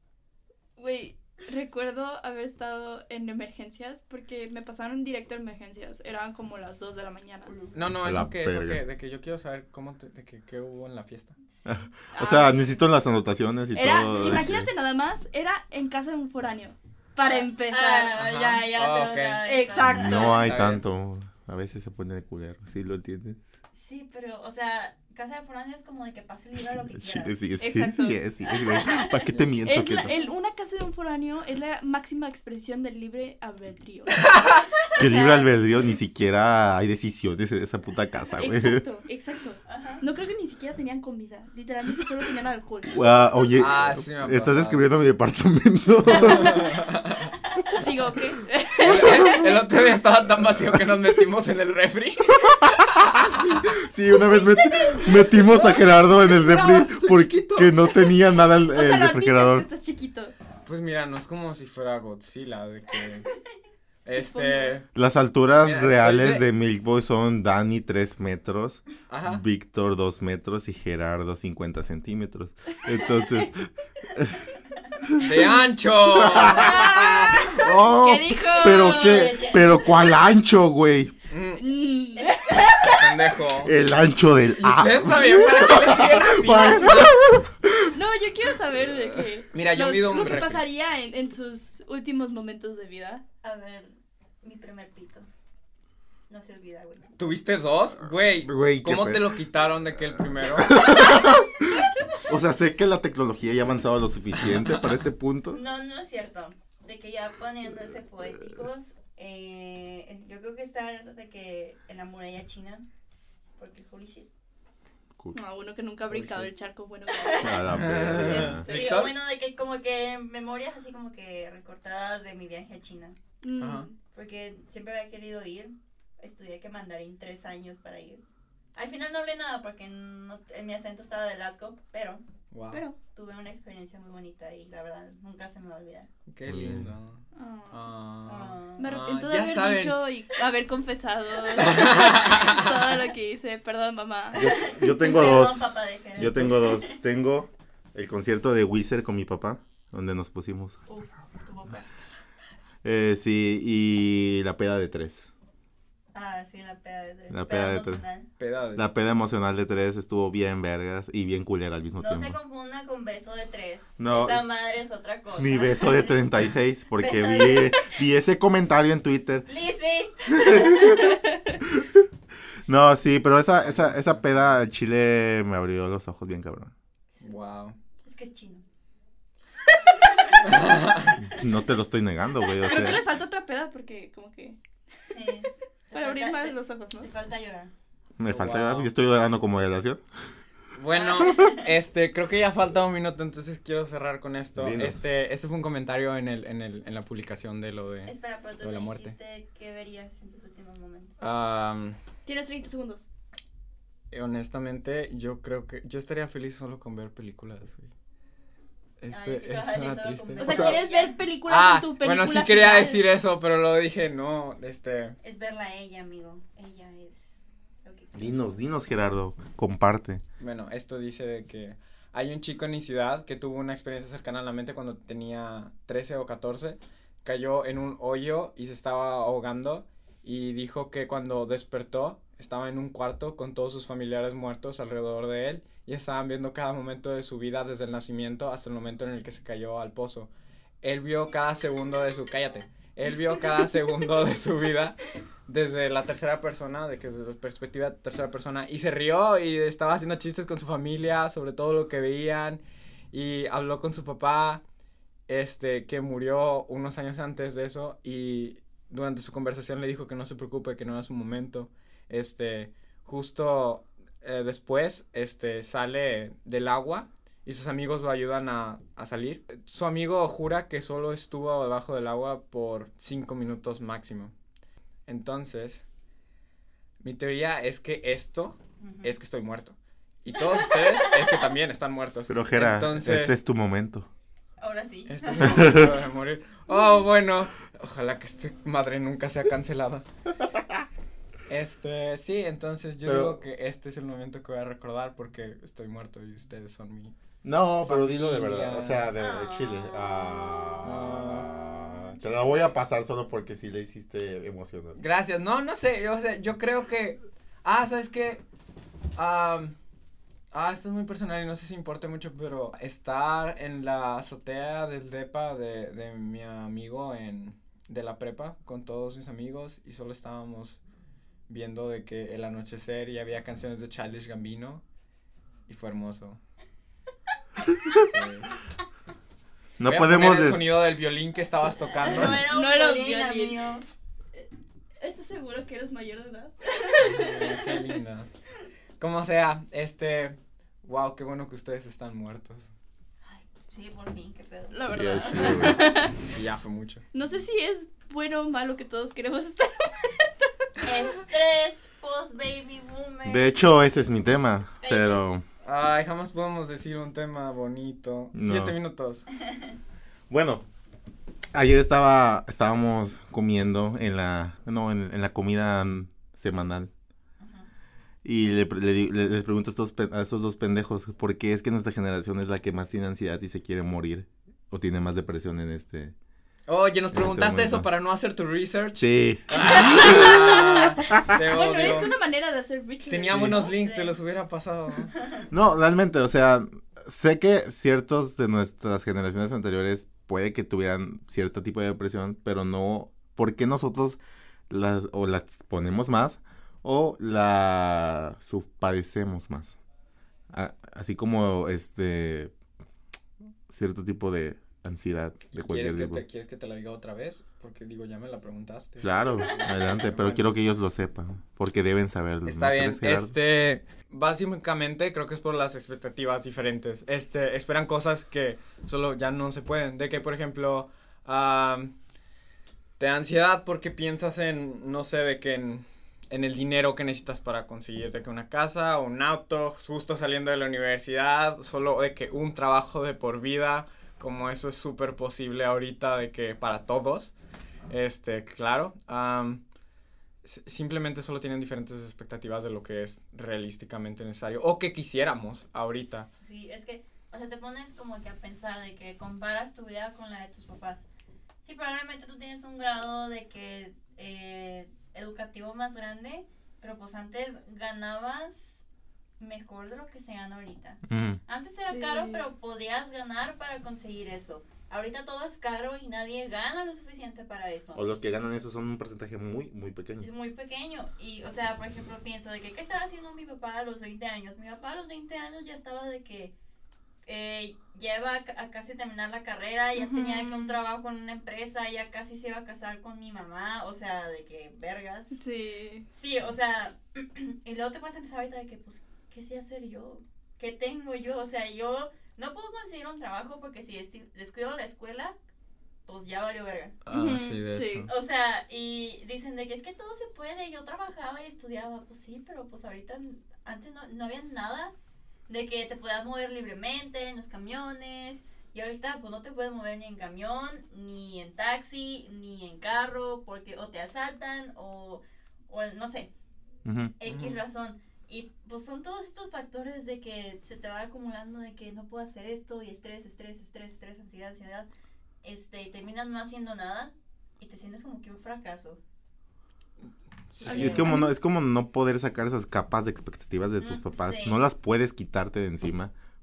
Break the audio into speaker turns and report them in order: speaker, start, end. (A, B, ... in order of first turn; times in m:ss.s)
0:00.8-0:07.5 A
0:07.5-0:07.8 B
0:07.7-0:11.4 C
0:08.0-0:08.8 D
0:11.6-0:14.7 D
0:12.1-0:12.6 A
0:13.7-0:18.1 A
0:17.2-0:20.4 B
0:18.2-0:19.5 C
0:19.4-0:20.5 A
0:19.8-0:23.4 D
0:20.2-0:20.8 C
0:23.7-0:27.4 B
0:26.6-0:30.1 D
0:27.6-0:28.2 A
0:28.5-0:29.3 B
0:29.6-0:34.4 A
0:30.0-0:30.3 B
0:34.9-0:35.4 A
0:35.0-0:38.8 D
0:38.4-0:43.0 A
0:39.7-0:40.0 B
0:42.9-0:46.7 D
0:43.6-0:44.8 C
0:46.1-0:46.6 A
0:46.2-0:47.3 C
0:47.7-0:49.5 A
0:48.8-0:53.0 C
0:52.6-0:59.7 D
0:54.6-0:55.6 A
0:56.3-0:57.0 A
0:58.1-1:00.3 A
1:00.6-1:03.3 C
1:04.0-1:04.8 C
1:04.1-1:04.8 A
1:04.9-1:14.4 D
1:05.6-1:06.4 C
1:09.1-1:09.4 C
1:15.2-1:17.4 C
1:16.1-1:21.1 D
1:16.5-1:19.4 A
1:18.6-1:19.9 B
1:21.3-1:21.6 C
1:21.6-1:23.2 A
1:22.1-1:23.0 B
1:22.9-1:23.7 C
1:23.6-1:27.9 D
1:24.5-1:27.2 C
1:27.9-1:33.2 A
1:29.5-1:30.6 C
1:33.4-1:35.3 B
1:36.3-1:37.2 B
1:37.2-1:41.0 C
1:38.4-1:39.3 D
1:40.5-1:45.6 D
1:44.4-1:44.9 C
1:45.5-1:52.8 B
1:53.6-1:54.3 B
1:55.3-1:58.9 A
1:56.1-1:56.5 C
1:57.1-1:57.6 B
1:57.4-1:58.7 D
1:57.7-1:59.1 C
1:58.7-2:03.2 B
2:03.4-2:04.0 A
2:03.6-2:03.9 C
2:04.1-2:08.2 B
2:08.7-2:12.2 B
2:12.5-2:12.8 C
2:12.7-2:13.0 A
2:13.1-2:16.1 B
2:16.3-2:20.0 C
2:16.4-2:16.9 D
2:17.3-2:17.9 A
2:18.2-2:18.9 B
2:18.8-2:24.7 A
2:21.5-2:23.0 C
2:24.3-2:27.0 B
2:24.3-2:30.8 D
2:26.2-2:26.5 C
2:30.9-2:32.0 B
2:32.8-2:35.2 D
2:36.1-2:38.3 B
2:37.3-2:38.0 D
2:38.4-2:38.8 C
2:38.8-2:42.4 D
2:42.0-2:46.2 B
2:44.0-2:44.4 D
2:45.4-2:49.5 D
2:47.0-2:48.0 B
2:49.4-2:51.2 B
2:50.3-2:51.1 D
2:51.6-2:52.0 D
2:52.7-2:56.7 D
2:53.6-2:54.5 C
2:57.2-2:57.8 C
2:58.0-2:58.6 B
2:59.9-3:00.8 B
3:00.4-3:01.2 C
3:01.2-3:03.0 D
3:02.6-3:04.6 A
3:05.1-3:07.7 B
3:05.9-3:07.1 A
3:08.2-3:10.0 D
3:08.3-3:08.9 C
3:10.7-3:19.1 C
3:10.9-3:11.7 B
3:14.6-3:15.0 D
3:18.0-3:21.2 B
3:21.2-3:22.0 C
3:22.2-3:23.1 A
3:24.1-3:27.9 C
3:29.0-3:30.7 C
3:29.1-3:31.2 B
3:30.4-3:33.0 A
3:30.4-3:30.8 D
3:31.4-3:35.2 C
3:35.2-3:38.6 B
3:38.2-3:40.2 D
3:40.4-4:00.3 C
4:00.8-4:14.6 C
4:15.3-4:34.3 C
4:35.1-4:35.8 C
4:37.0-4:43.4 C
4:38.8-4:39.1 B
4:40.5-4:41.3 B
4:42.3-4:44.1 D
4:44.6-4:45.9 B
4:45.1-4:50.0 C
4:45.4-4:45.9 D
4:50.4-4:50.8 D
4:51.5-4:57.1 C
4:53.0-4:53.4 D
4:57.4-5:05.0 D
4:57.8-4:59.1 C
4:59.2-5:00.6 B
5:00.8-5:01.5 C
5:04.9-5:08.4 C
5:09.2-5:09.7 C
5:10.5-5:20.8 C
5:21.5-5:24.8 C
5:25.7-5:26.4 C
5:27.9-5:28.5 C
5:29.8-5:30.6 D
5:29.8-5:32.4 C
5:32.1-5:33.8 B
5:32.1-5:33.6 A
5:35.0-5:37.1 A
5:37.0-5:38.3 C
5:39.0-5:42.7 C
5:43.2-5:45.7 B
5:44.7-5:46.2 A
5:44.9-5:45.8 D
5:46.2-5:47.0 C
5:47.1-5:50.1 A
5:50.8-5:53.7 B
5:53.2-5:55.4 D
5:54.8-5:55.2 B
5:55.6-5:59.3 C
5:58.3-5:58.8 D
5:59.5-5:59.8 B
6:00.3-6:00.6 D
6:01.5-6:06.9 D
6:07.4-6:07.7 B
6:08.2-6:16.1 D
6:16.7-6:22.1 C
6:17.1-6:17.8 D
6:19.0-6:21.3 D
6:19.6-6:23.5 A
6:23.0-6:25.1 C
6:23.3-6:23.6 D
6:23.4-6:24.2 B
6:25.1-6:25.5 B
6:25.5-6:34.2 D
6:34.7-6:39.8 D
6:40.5-6:42.5 D
6:43.7-6:46.2 D
6:45.5-6:50.5 C
6:49.0-6:53.3 D
6:52.4-7:01.9 C
7:03.0-7:17.3 C
7:17.9-7:19.6 C
7:20.4-7:26.3 C
7:26.2-7:31.1 B
7:31.6-7:38.8 B
7:39.4-7:48.1 B
7:41.1-7:41.4 D
7:41.8-7:42.4 A
7:47.9-7:50.3 D
7:50.2-7:56.5 B
7:57.2-8:05.3 B
7:59.9-8:00.8 A
8:05.3-8:06.0 A
8:06.1-8:15.3 B
8:16.0-8:17.0 B
8:17.0-8:18.1 C
8:17.1-8:18.1 A
8:18.1-8:24.9 B
8:25.5-8:36.3 B
8:36.8-8:37.1 D
8:37.2-8:44.9 B
8:37.2-8:37.6 C
8:45.4-8:49.0 B
8:50.5-8:51.1 C
8:50.6-8:51.3 A
8:50.6-8:56.1 D
8:50.7-8:51.1 B
8:53.8-8:54.6 B